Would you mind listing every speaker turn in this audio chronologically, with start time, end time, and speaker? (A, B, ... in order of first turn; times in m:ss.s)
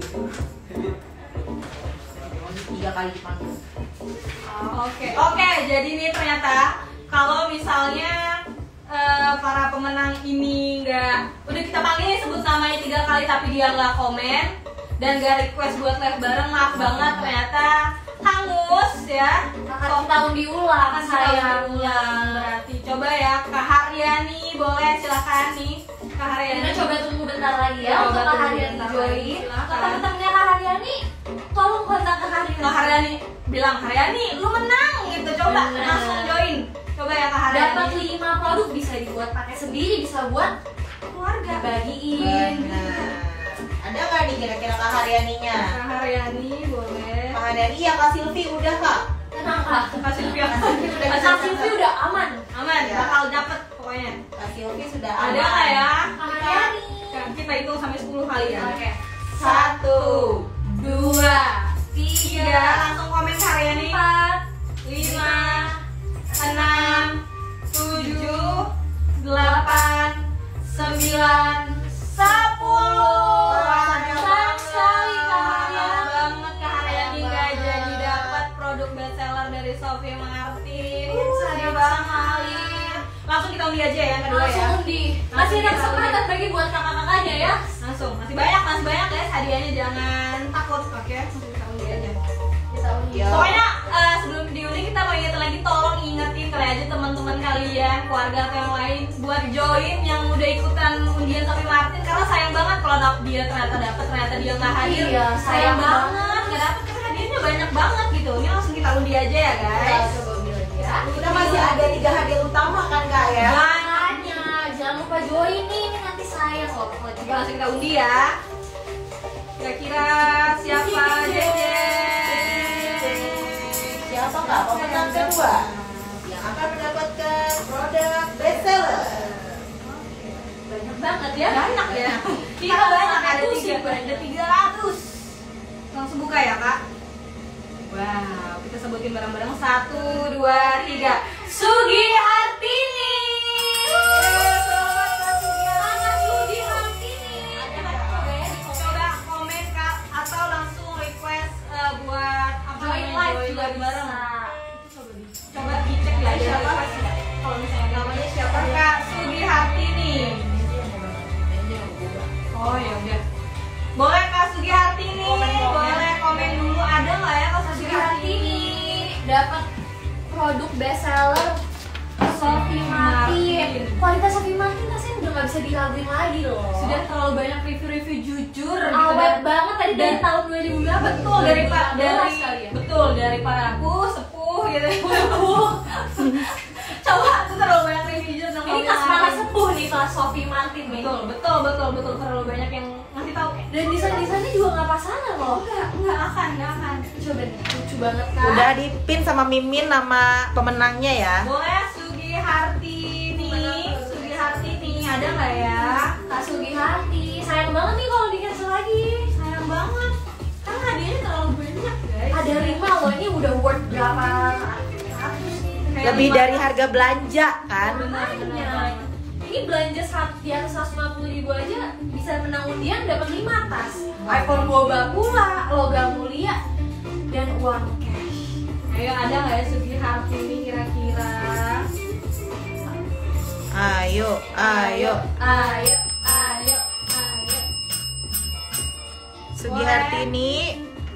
0:02.2-0:03.6 A
0:04.6-0:20.2 B
0:16.8-0:17.3 A
0:19.7-0:22.5 C
0:20.8-0:26.9 B
0:26.5-0:33.0 C
0:27.8-0:30.0 B
0:32.6-0:38.0 B
0:35.4-0:36.5 C
0:37.5-0:40.5 C
0:41.1-0:41.6 B
0:41.4-0:42.7 C
0:42.1-0:45.7 A
0:42.2-0:43.1 B
0:45.6-0:47.4 B
0:47.3-0:49.0 A
0:49.3-0:52.4 C
0:49.7-0:51.8 B
0:50.6-0:51.0 A
0:52.5-0:54.2 B
0:52.8-0:53.2 A
0:54.3-0:55.9 A
0:55.2-0:58.8 B
0:56.1-0:57.3 C
0:58.3-0:59.0 C
0:59.4-1:00.4 A
0:59.4-1:01.4 B
1:00.8-1:02.9 C
1:02.2-1:04.0 B
1:03.8-1:04.4 C
1:04.8-1:05.7 B
1:05.0-1:07.1 C
1:06.4-1:07.2 B
1:07.7-1:08.7 B
1:07.8-1:08.6 C
1:09.2-1:14.2 B
1:09.4-1:10.1 C
1:10.7-1:18.2 C
1:13.5-1:15.1 A
1:15.1-1:24.8 B
1:21.0-1:23.0 C
1:24.2-1:27.6 C
1:25.3-1:26.3 B
1:27.8-1:32.2 B
1:32.7-1:33.5 C
1:33.1-1:33.6 A
1:33.3-1:50.1 B
1:44.7-1:46.5 C
1:49.7-1:51.0 C
1:50.9-1:51.9 B
1:51.2-1:53.6 A
1:53.4-1:54.4 B
1:53.5-1:57.7 C
1:57.2-1:58.4 B
1:59.6-2:06.2 B
2:00.7-2:03.4 C
2:04.0-2:05.6 A
2:06.2-2:09.2 A
2:08.4-2:09.6 C
2:09.8-2:10.5 B
2:10.6-2:11.8 C
2:11.4-2:15.2 B
2:11.8-2:12.2 A
2:12.6-2:14.3 C
2:15.9-2:16.8 B
2:17.9-2:21.2 B
2:20.1-2:24.5 C
2:24.1-2:26.9 B
2:24.3-2:25.1 A
2:25.8-2:29.1 C
2:27.5-2:34.2 B
2:27.7-2:28.3 A
2:32.7-2:34.6 C
2:34.7-2:40.4 B
2:35.8-2:36.9 C
2:37.9-2:39.1 A
2:40.1-2:42.3 A
2:42.5-2:43.2 B
2:44.0-2:48.7 B
2:45.2-2:46.1 A
2:47.7-2:49.6 C
2:50.3-2:51.6 C
2:52.2-2:57.0 C
2:52.3-2:54.0 B
2:56.8-3:00.2 B
2:58.9-3:02.8 C
3:00.9-3:09.5 B
3:05.0-3:06.3 C
3:08.6-3:11.1 C
3:10.9-3:14.2 B
3:13.7-3:15.6 C
3:15.5-3:17.1 B
3:17.2-3:18.6 C
3:18.4-3:18.6 B
3:18.4-3:21.4 A
3:21.4-3:26.1 B
3:23.4-3:25.2 C
3:26.2-3:29.3 C
3:29.3-3:32.8 B
3:32.3-3:35.9 C
3:35.9-3:36.7 B
3:36.0-3:38.0 A
3:37.8-3:46.6 C
3:37.9-3:39.1 B
3:44.3-3:44.6 A
3:47.3-3:48.6 C
3:48.9-3:51.9 B
3:53.7-3:55.2 A
3:54.6-3:57.6 B
3:55.4-3:56.8 C
3:59.6-4:00.8 A
3:59.6-4:00.3 B